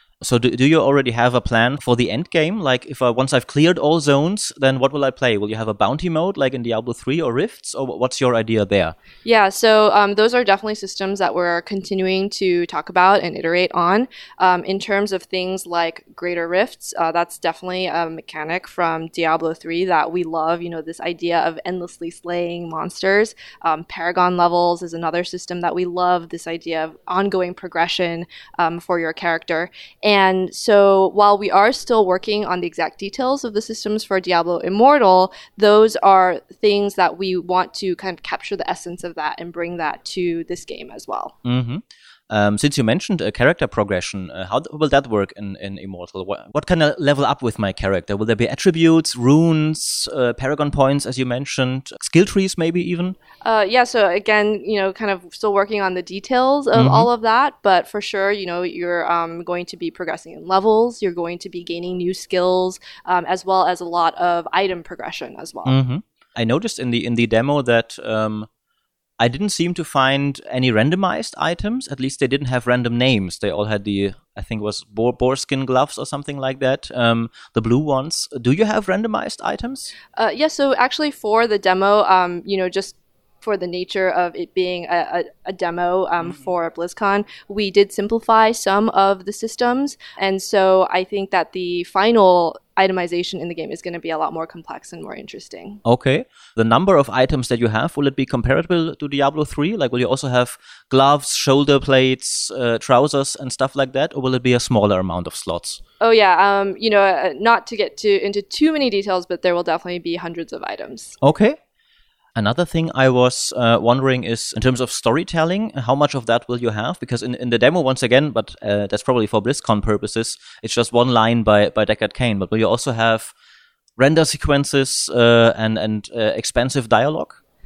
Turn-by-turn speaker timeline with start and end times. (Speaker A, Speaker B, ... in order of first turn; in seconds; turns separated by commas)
Speaker A: 0.2-8.9, Speaker B: 9.2-41.4, Speaker A: 41.4-53.2, Speaker B: 53.4-65.8, Speaker A: 56.7-57.1, Speaker A: 65.7-68.5, Speaker A: 69.2-79.9, Speaker B: 80.1-95.8, Speaker A: 95.8-105.8, Speaker B: 106.0-111.2, Speaker A: 111.2-111.6, Speaker A: 112.4-123.3, Speaker A: 124.0-127.4